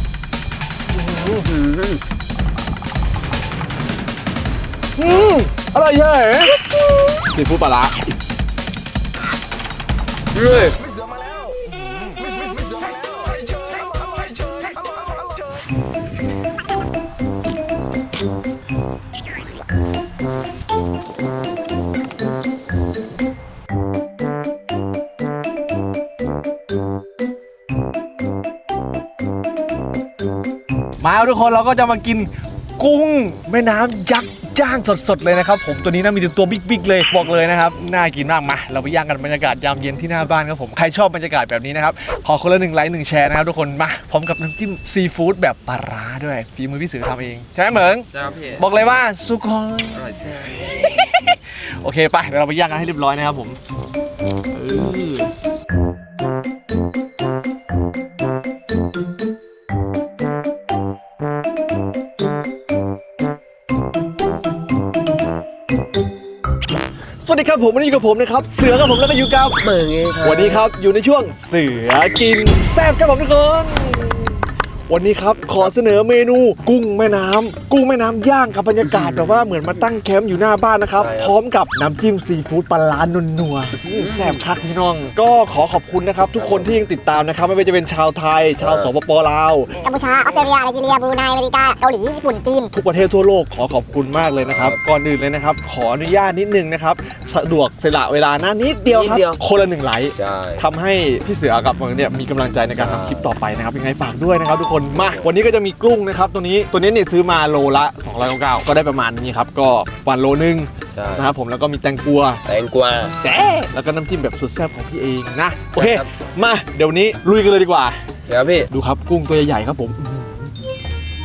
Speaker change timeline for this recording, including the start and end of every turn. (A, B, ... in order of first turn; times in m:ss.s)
0:00.9-0:01.5 A
0:01.2-0:02.0 B
0:05.0-0:07.9 A
0:10.3-0:10.8 B
0:11.1-0:12.2 A
0:31.0-0:53.6 A
0:48.1-0:48.7 B
0:49.9-0:50.8 B
0:54.5-0:55.3 B
1:07.2-1:09.6 A
1:09.6-1:10.7 B
1:10.2-1:29.8 A
1:18.8-1:19.6 B
1:21.0-1:21.4 B
1:23.9-1:24.4 B
1:26.4-1:26.8 B
1:28.6-1:28.9 B
1:29.8-1:32.7 C
1:32.7-1:52.4 A
1:34.4-1:34.8 B
1:38.8-1:39.4 B
1:40.2-1:40.6 B
1:42.7-1:43.3 B
1:44.9-1:45.3 B
1:50.9-1:51.3 B
1:52.4-1:53.2 B
1:53.2-1:58.0 A
1:55.8-1:56.1 B
1:58.3-1:58.7 B
1:58.7-2:00.5 A